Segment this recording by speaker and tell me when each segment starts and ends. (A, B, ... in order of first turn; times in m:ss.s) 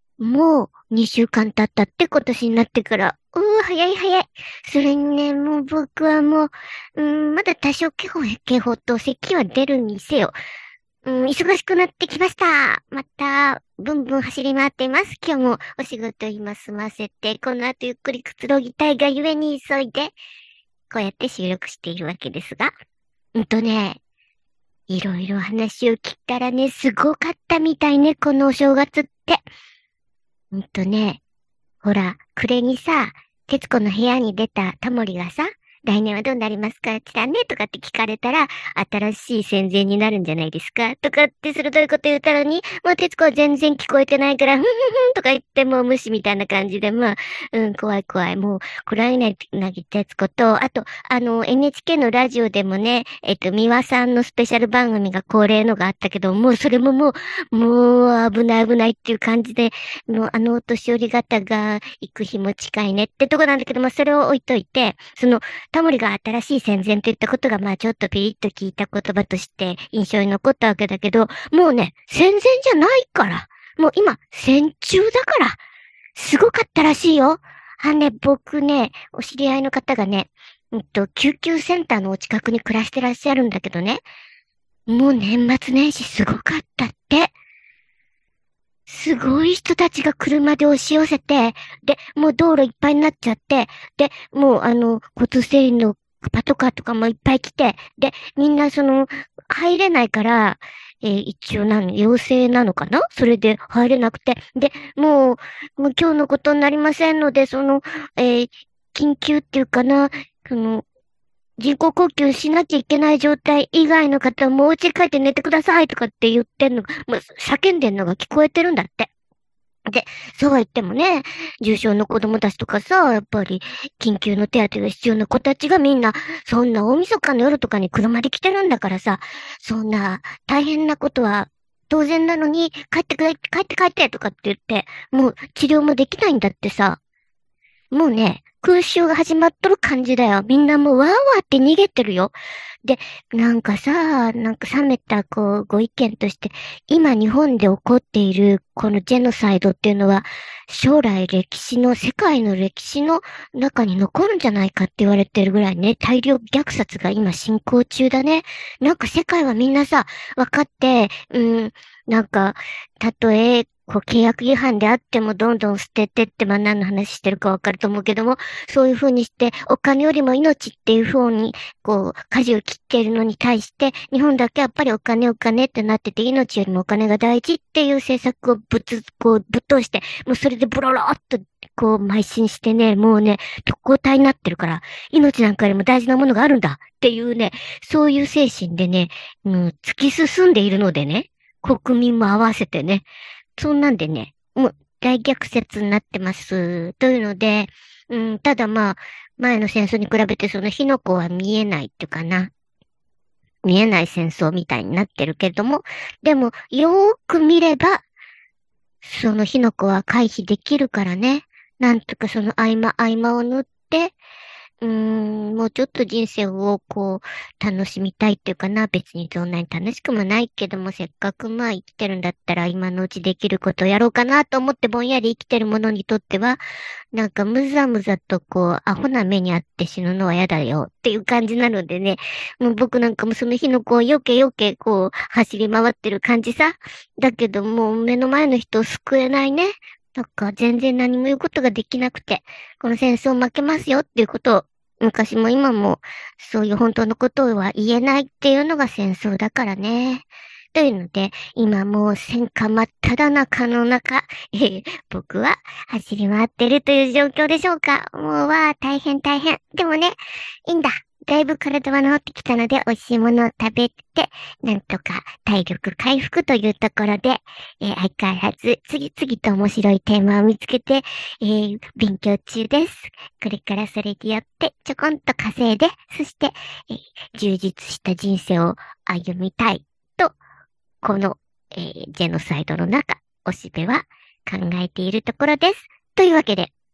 0:00.2-0:10.3 A
0:11.0-0:20.1 A
0:20.9-0:22.7 A
0:23.3-0:24.0 A
0:24.9-0:29.4 A
0:30.5-0:31.2 A
0:31.8-1:15.6 A
1:16.1-1:24.0 A
1:24.9-1:27.3 A
1:28.9-1:50.8 A
1:51.6-1:59.1 A
1:59.9-2:17.0 A
2:17.9-3:13.0 A
3:13.6-3:22.5 A
3:23.6-3:28.0 A
3:29.0-3:34.1 A
3:34.8-3:46.6 A
3:47.1-4:40.4 A
4:41.0-4:46.7 A